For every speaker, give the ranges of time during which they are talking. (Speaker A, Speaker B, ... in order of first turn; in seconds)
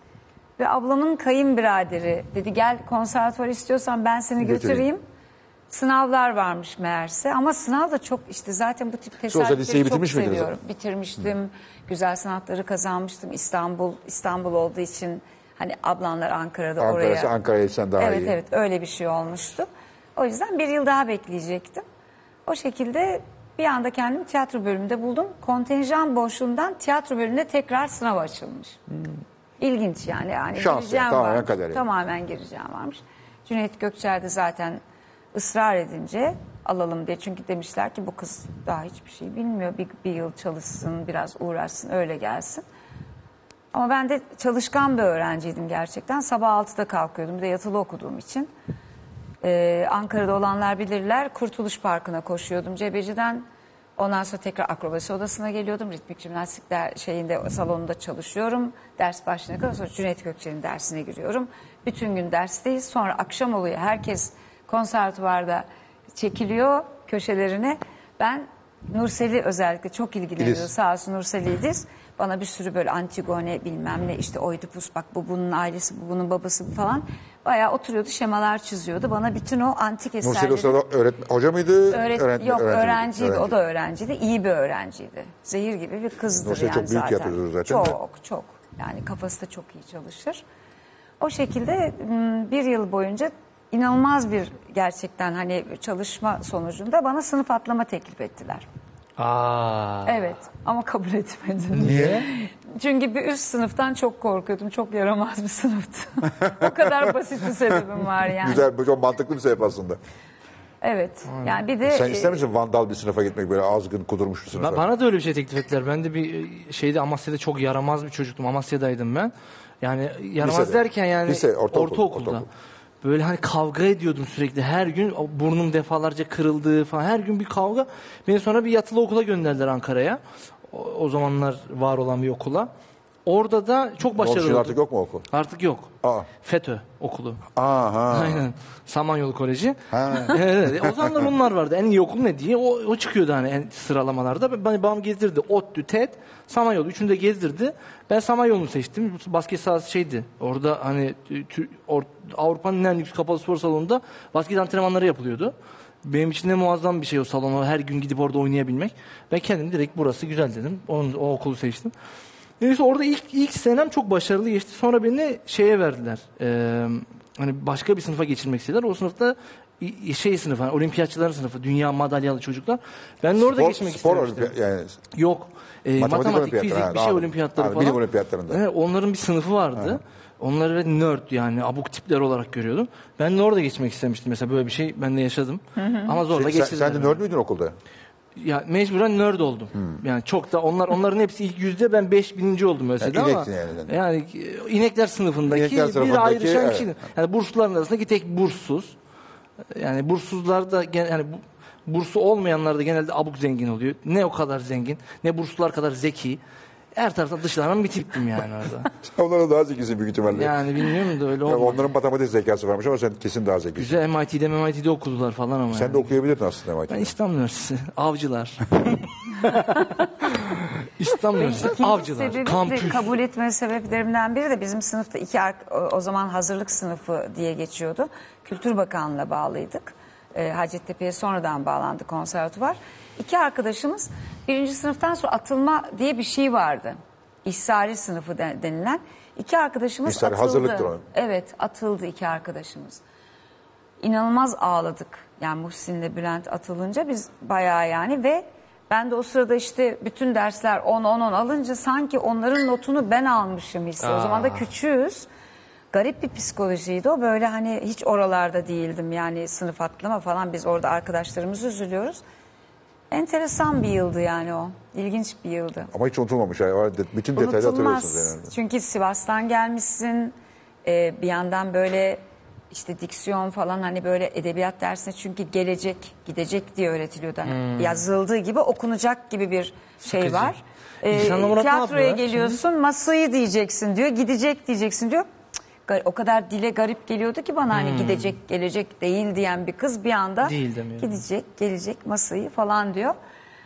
Speaker A: 0.6-5.0, 5.7-17.3, 18.0-21.8, 22.5-28.8, 29.6-34.8, 35.3-42.6, 43.7-48.5, 49.4-53.5, 54.0-80.8, 81.9-90.4, 91.2-98.7, 100.1-108.6, 110.8-112.4, 185.8-186.1, 221.3-243.0, 244.0-255.3, 255.9-262.2, 263.1-265.9, 267.4-285.3, 285.9-293.2
Speaker B: 4.4-4.9, 9.3-10.5, 16.8-18.4, 30.6-31.8, 70.4-70.7, 80.2-83.5, 86.4-88.0, 101.8-102.2, 108.4-110.0, 111.8-114.8, 120.4-122.5, 134.2-135.3, 136.0-136.3, 137.6-138.4, 139.9-141.2, 173.4-175.0, 176.0-178.6, 186.3-187.8, 193.0-194.0, 195.5-196.9, 209.0-210.6, 211.4-214.0, 215.7-217.1, 240.1-241.0, 265.9-268.5
Speaker C: 99.2-100.2, 101.8-102.3, 111.3-111.5, 114.6-122.5, 123.0-132.7, 133.3-134.8, 135.3-137.4, 138.1-161.9, 162.6-174.5, 175.1-187.2, 188.4-198.9, 199.7-206.4, 206.9-208.9, 210.3-211.8, 213.8-216.1, 216.9-223.1, 254.0-254.7, 277.5-278.0, 280.0-280.5, 281.1-282.6, 287.7-288.3, 290.4-291.2